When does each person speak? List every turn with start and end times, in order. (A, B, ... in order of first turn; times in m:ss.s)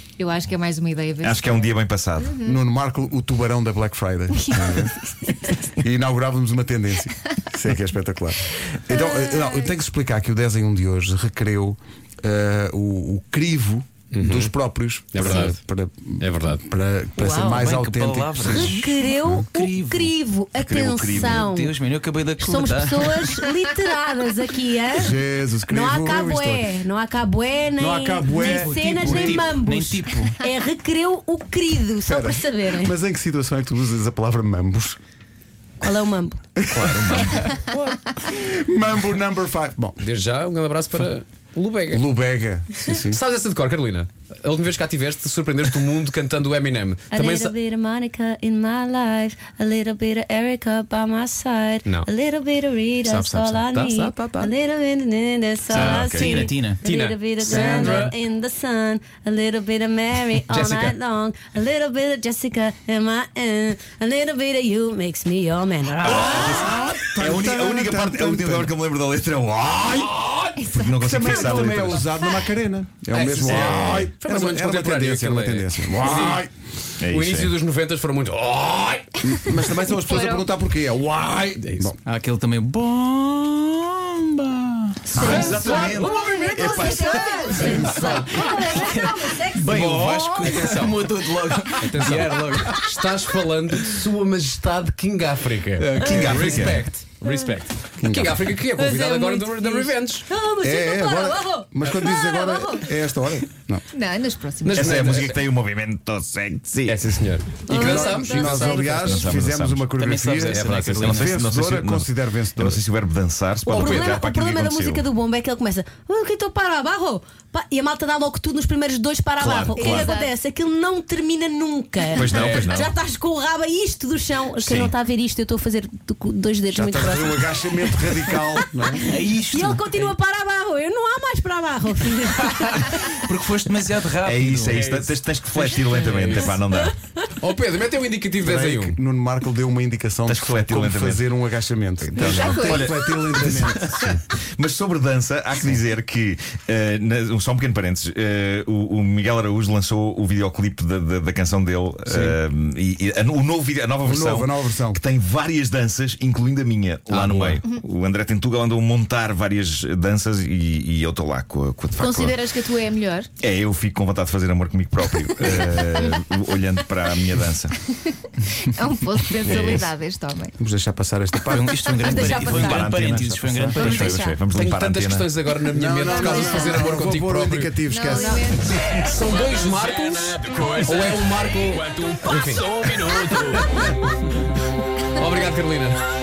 0:00.2-0:01.7 A
0:01.2-0:02.3 B
0:02.4-0:05.0 C
0:04.3-0:04.6 A
0:05.8-0:19.4 C
0:14.1-0:14.5 D
0:15.1-0:15.6 D
0:16.2-0:16.6 D
0:17.2-0:17.7 E
0:17.4-0:20.1 F
0:18.4-0:21.8 E
0:20.6-0:21.4 B
0:21.1-0:23.4 F
0:22.4-0:25.2 E
0:24.9-0:26.7 C
0:25.7-0:32.9 E
0:27.8-0:29.5 C
0:28.5-0:30.4 F
0:32.0-0:35.0 C
0:35.8-0:36.4 E
0:36.6-0:40.0 C
0:36.7-0:37.6 B
0:40.0-0:42.0 D
0:41.9-0:43.2 C
0:43.1-0:47.5 D
0:47.1-1:06.8 E
0:53.0-0:54.5 D
0:55.7-0:56.8 F
0:55.7-0:56.4 B
0:56.8-0:58.1 D
0:57.5-0:58.0 F
1:00.5-1:01.0 D
1:06.0-1:12.2 B
1:06.1-1:08.7 C
1:09.9-1:10.5 D
1:10.9-1:16.5 C
1:13.1-1:16.4 D
1:13.4-1:14.1 B
1:17.0-1:17.5 B
1:17.1-1:19.1 D
1:19.2-1:22.0 C
1:19.9-1:20.5 A
1:21.6-1:21.9 D
1:22.0-1:25.5 F
1:25.1-1:28.8 A
1:25.1-1:28.2 B
1:25.1-1:29.7 E
1:25.2-1:25.8 D
1:28.8-1:32.8 F
1:29.6-1:30.7 B
1:29.7-1:31.0 D
1:31.8-1:40.3 D
1:35.8-1:36.8 F
1:36.0-1:36.8 C
1:36.3-1:36.8 B
1:38.0-1:38.6 C
1:38.8-1:42.8 E
1:40.6-1:43.8 C
1:43.9-1:45.1 A
1:44.6-1:45.5 D
1:44.7-1:47.1 B
1:46.8-1:49.1 D
1:47.7-1:49.2 E
1:47.7-1:52.8 C
1:48.4-1:49.9 B
1:49.9-1:51.4 F
1:50.5-1:51.1 D
1:50.8-1:55.0 B
1:53.6-2:08.4 E
1:53.7-1:54.1 D
1:59.4-2:00.1 B
1:59.8-2:00.3 A
2:02.1-2:02.9 B
2:02.3-2:02.9 D
2:04.6-2:04.9 B
2:06.7-2:09.0 C
2:09.0-2:10.1 F
2:09.5-2:13.0 E
2:13.1-2:14.8 F
2:14.2-2:16.9 B
2:14.7-2:16.6 D
2:17.4-2:19.0 D
2:18.4-2:24.2 C
2:20.3-2:21.4 B
2:22.1-2:42.4 B
2:22.2-2:22.8 A
2:32.1-2:32.4 C
2:34.0-2:35.0 C
2:42.0-2:43.3 A
2:43.4-2:47.8 B
2:48.7-2:50.5 A
2:49.4-2:49.9 B
2:50.6-2:52.2 C
2:51.5-2:54.2 F
2:51.8-2:53.0 E
2:52.3-2:55.3 B
2:53.5-2:53.8 C
2:53.7-2:54.4 E
2:54.5-2:57.8 D
2:55.7-2:59.0 C
2:57.9-2:58.7 A
2:58.7-3:03.9 D
3:02.5-3:03.6 F
3:05.1-3:06.0 D